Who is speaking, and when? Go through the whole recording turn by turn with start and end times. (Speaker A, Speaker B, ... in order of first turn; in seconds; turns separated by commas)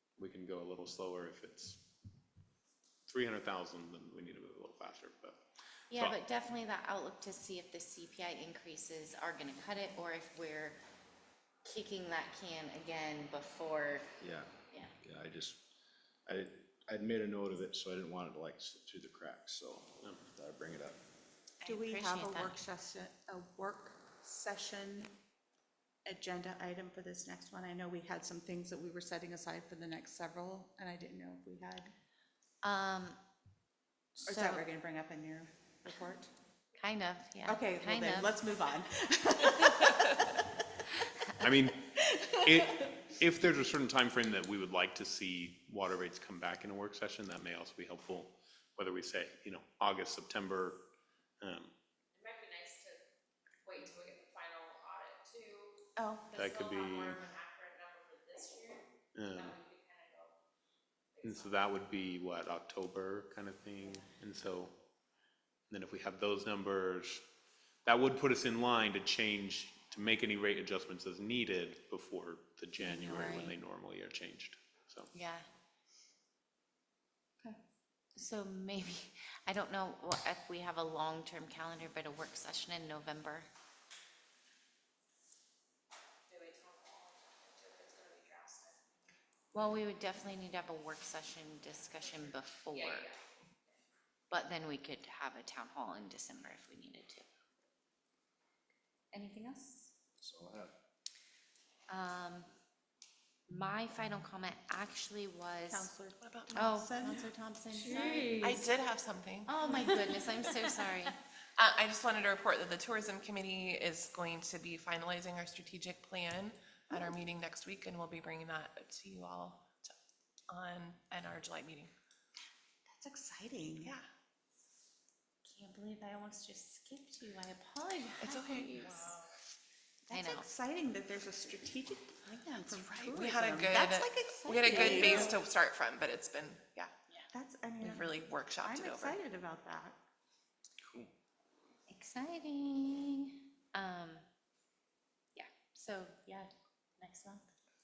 Speaker A: 0.2-1.8, Speaker A: 3.1-5.4, Speaker B: 5.9-10.8, Speaker A: 5.9-6.2, Speaker B: 11.7-14.1, Speaker C: 14.2-14.5, Speaker C: 15.0-15.6, Speaker C: 16.3-21.0, Speaker B: 21.6-22.6, Speaker D: 21.7-25.1, Speaker D: 26.1-31.9, Speaker B: 32.6-33.2, Speaker B: 34.2-34.6, Speaker D: 34.3-36.3, Speaker B: 36.8-38.4, Speaker D: 37.5-40.2, Speaker A: 41.4-41.8, Speaker D: 42.0-43.0, Speaker A: 42.4-50.8, Speaker A: 51.4-51.7, Speaker E: 52.2-53.0, Speaker E: 53.6-55.8, Speaker D: 56.0-56.4, Speaker A: 56.3-57.3, Speaker E: 56.4-60.3, Speaker A: 59.1-59.6, Speaker E: 61.2-61.6, Speaker A: 61.2-64.7, Speaker A: 65.7-67.2, Speaker A: 67.8-75.1, Speaker B: 72.8-73.6, Speaker B: 75.1-75.5, Speaker B: 78.2-83.5, Speaker E: 86.3-89.1, Speaker B: 89.5-93.1, Speaker E: 92.8-93.2, Speaker B: 94.3-97.3, Speaker B: 99.1-99.9, Speaker C: 100.2-100.7, Speaker B: 101.9-102.5, Speaker B: 103.5-105.9, Speaker D: 105.7-107.2, Speaker F: 106.2-106.6, Speaker B: 106.5-108.7, Speaker D: 107.9-108.6, Speaker F: 108.4-109.9, Speaker B: 109.5-111.2, Speaker F: 111.6-120.0, Speaker F: 120.5-121.9, Speaker D: 122.9-124.0, Speaker B: 125.4-129.2, Speaker F: 128.2-129.1, Speaker D: 130.1-135.4, Speaker B: 130.1-130.5, Speaker F: 132.9-136.9, Speaker B: 134.7-135.3, Speaker D: 137.3-140.0, Speaker F: 137.8-139.2, Speaker B: 141.9-144.2, Speaker B: 145.3-147.5